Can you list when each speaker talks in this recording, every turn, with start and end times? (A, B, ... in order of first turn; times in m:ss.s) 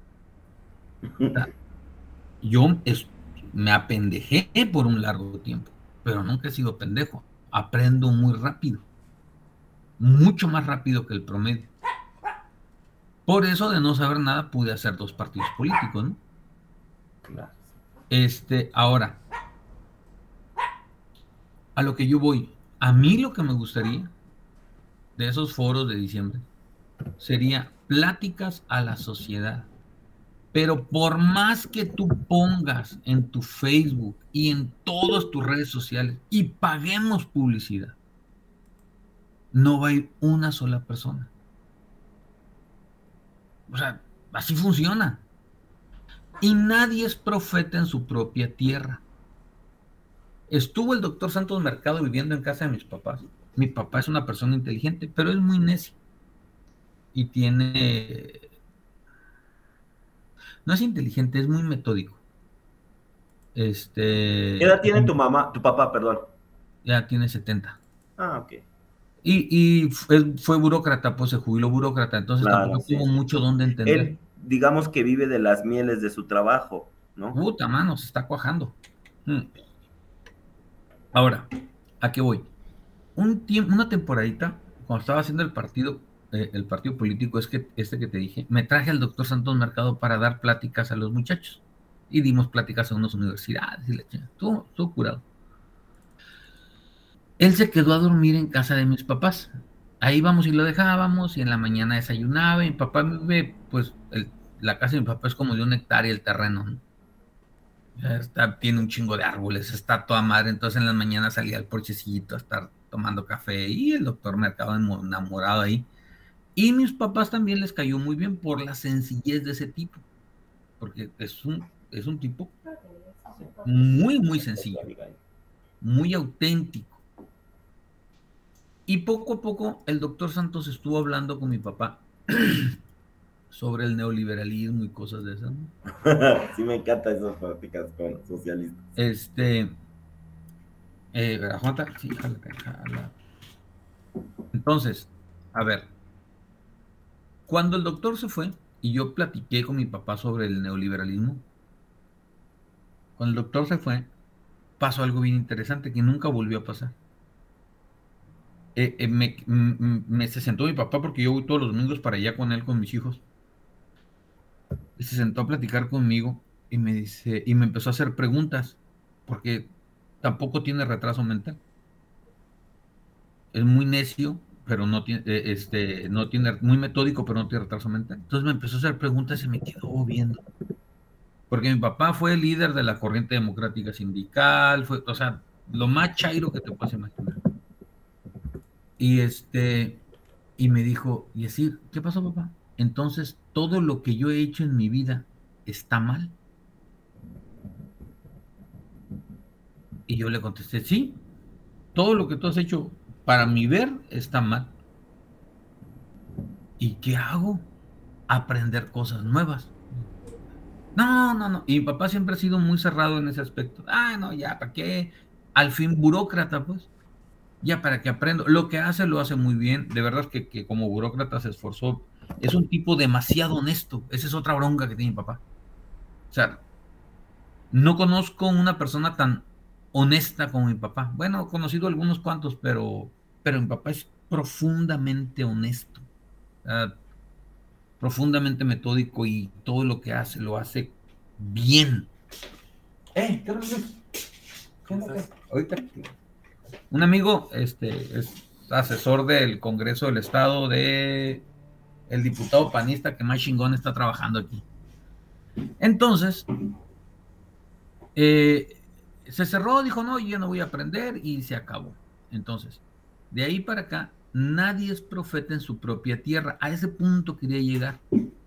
0:02.4-0:08.8 A
0:10.0-0:11.7 A
0:13.2-0:16.2 A
0:17.2-0:17.6 B
0:18.1-0:19.2 A
0:21.8-0:24.1 A
0:25.2-0:26.4 A
0:27.2-0:29.7 A
0:30.5-0:38.0 A
0:39.5-0:41.3 A
0:43.7-0:45.2 A
0:46.4-0:49.0 A
0:50.5-0:56.0 A
0:57.1-0:58.5 A
1:00.6-1:02.2 A
1:03.5-1:05.1 A
1:04.6-1:06.3 B
1:06.8-1:07.8 A
1:08.2-1:08.6 B
1:09.2-1:14.1 A
1:12.4-1:13.2 B
1:13.8-1:17.4 B
1:17.3-1:19.5 A
1:21.1-1:21.5 A
1:22.0-1:22.5 A
1:23.2-1:35.2 A
1:37.4-1:46.8 A
1:48.0-1:55.9 A
1:56.6-2:00.0 A
2:00.8-2:02.6 A
2:03.6-2:04.8 A
2:04.4-2:05.2 B
2:05.8-2:07.0 A
2:08.9-2:12.8 A
2:13.5-2:15.7 A
2:16.0-2:18.8 B
2:19.0-2:19.8 A
2:21.1-2:23.1 A
2:24.5-2:25.9 A
2:27.5-2:31.4 A
2:33.2-2:34.1 A
2:34.8-2:37.0 A
2:38.8-2:43.2 A
2:45.0-2:49.7 A
2:50.2-2:51.6 A
2:53.5-3:00.4 A
3:01.5-3:07.4 A
3:09.0-3:10.0 A
3:10.6-3:16.4 A
3:20.1-3:21.2 A
3:21.9-3:24.7 A
3:26.8-3:27.6 A
3:28.3-3:29.8 A
3:30.9-3:36.9 A
3:37.6-3:45.4 A
3:46.3-3:46.6 A
3:47.7-3:56.1 A
3:56.6-3:57.0 A
3:58.0-4:02.1 A
4:03.1-4:04.0 A
4:04.8-4:06.1 A
4:06.9-4:11.4 A
4:12.1-4:14.6 A
4:15.8-4:16.5 A
4:18.2-4:28.0 A